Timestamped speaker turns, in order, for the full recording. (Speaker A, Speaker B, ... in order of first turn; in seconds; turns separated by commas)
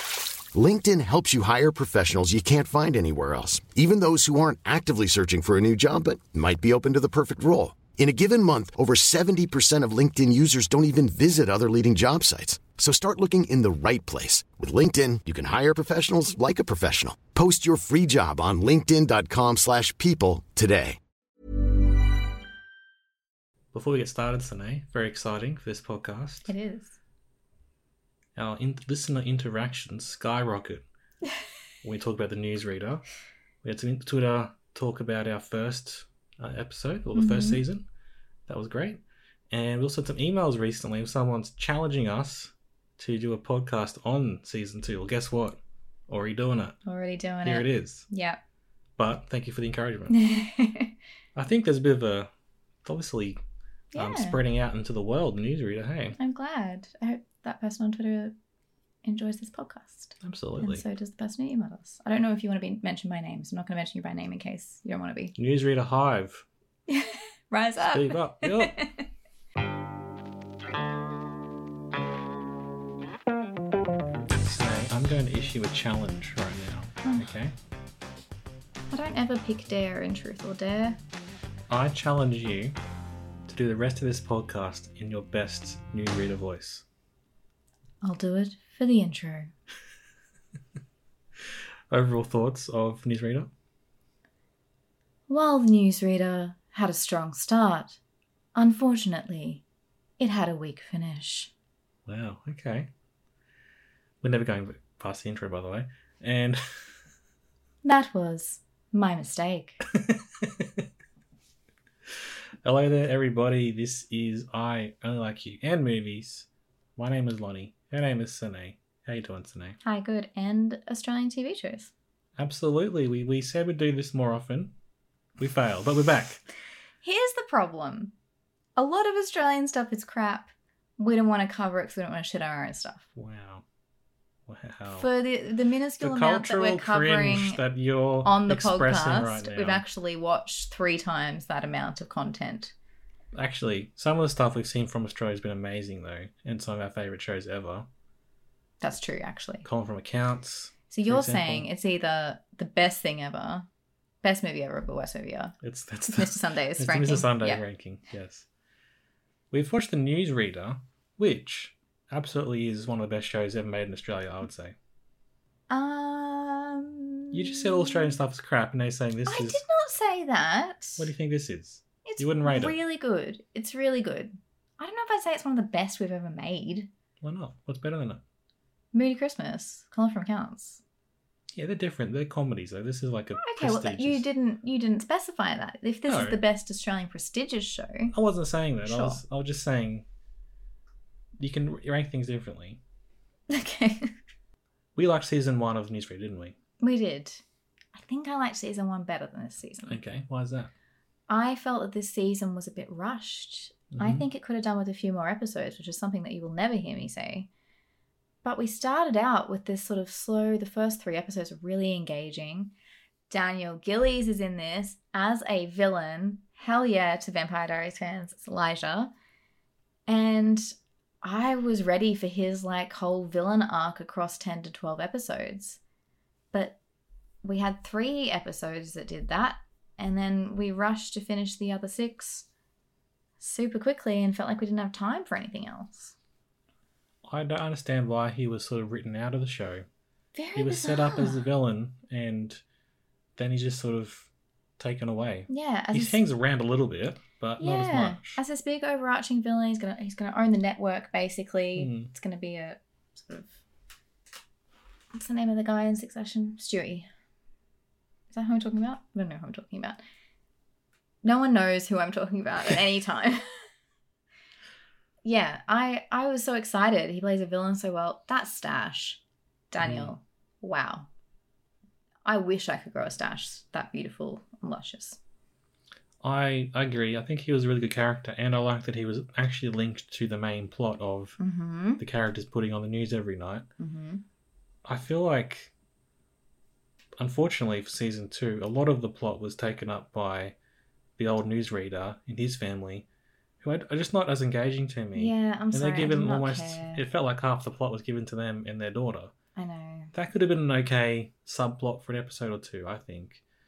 Speaker A: 0.5-21.0, Speaker B: 23.7-26.5, Speaker C: 26.5-27.0, Speaker B: 28.4-30.9, Speaker B: 31.8-33.1, Speaker B: 33.6-37.9, Speaker C: 37.1-37.6, Speaker B: 38.5-46.8, Speaker C: 46.9-48.4, Speaker B: 47.4-48.1, Speaker B: 49.0-50.2, Speaker C: 50.1-51.0, Speaker B: 51.4-52.3, Speaker B: 52.9-53.4, Speaker C: 53.9-54.4, Speaker B: 54.0-56.2, Speaker C: 56.2-58.4, Speaker C: 59.0-65.4, Speaker B: 60.2-60.8, Speaker B: 65.4-66.5, Speaker C: 66.9-69.1, Speaker B: 67.9-68.8, Speaker B: 74.3-77.5, Speaker C: 77.0-77.3, Speaker C: 78.9-81.0, Speaker B: 81.7-82.8, Speaker B: 83.5-86.8, Speaker C: 88.0-89.5, Speaker B: 91.9-93.5, Speaker C: 95.3-98.0, Speaker C: 98.5-99.6, Speaker C: 100.2-101.5, Speaker B: 102.1-102.9, Speaker B: 104.2-106.9, Speaker C: 107.8-109.9, Speaker B: 109.9-110.8, Speaker B: 112.6-119.8, Speaker C: 119.8-121.9, Speaker B: 122.4-124.7, Speaker B: 125.4-126.4, Speaker C: 127.0-128.1, Speaker C: 128.8-133.1, Speaker B: 133.2-133.6, Speaker B: 134.5-135.1, Speaker C: 135.0-137.6, Speaker B: 136.0-139.8, Speaker C: 138.2-142.7, Speaker B: 143.3-147.9, Speaker C: 148.8-149.7, Speaker B: 149.6-151.7, Speaker C: 150.9-153.7, Speaker C: 154.2-155.5, Speaker B: 155.6-158.5, Speaker C: 156.1-157.6, Speaker B: 159.5-164.8, Speaker C: 165.7-168.2, Speaker B: 167.3-169.6, Speaker C: 169.3-171.1, Speaker B: 171.0-172.8, Speaker C: 172.1-176.9, Speaker B: 177.2-178.2, Speaker C: 178.9-180.8, Speaker B: 181.6-184.2, Speaker C: 183.4-188.1, Speaker B: 186.1-186.4, Speaker B: 188.1-190.1, Speaker C: 188.8-189.2, Speaker B: 191.4-192.8, Speaker C: 193.5-194.1, Speaker B: 195.0-196.6, Speaker C: 196.8-200.0, Speaker B: 199.9-200.7, Speaker C: 201.3-207.5, Speaker B: 203.9-204.2, Speaker C: 208.4-212.7, Speaker C: 213.3-219.1, Speaker C: 220.1-225.8, Speaker C: 226.5-226.8, Speaker C: 227.4-232.5, Speaker C: 233.4-236.2, Speaker B: 237.2-239.9, Speaker C: 240.3-241.4, Speaker B: 240.6-242.6, Speaker B: 243.4-248.4, Speaker C: 245.5-246.2, Speaker C: 247.6-253.6, Speaker B: 251.8-252.1, Speaker C: 255.1-257.1, Speaker C: 258.3-260.0, Speaker C: 261.2-263.6, Speaker C: 265.2-271.1, Speaker B: 269.8-270.1, Speaker C: 272.2-275.2, Speaker B: 276.2-281.4, Speaker C: 281.4-282.0, Speaker B: 282.0-283.7, Speaker C: 283.8-284.2, Speaker B: 284.9-285.7, Speaker B: 287.2-290.6, Speaker B: 291.2-293.1, Speaker B: 293.6-299.3, Speaker C: 295.1-297.0, Speaker C: 299.6-300.1, Speaker B: 300.1-303.4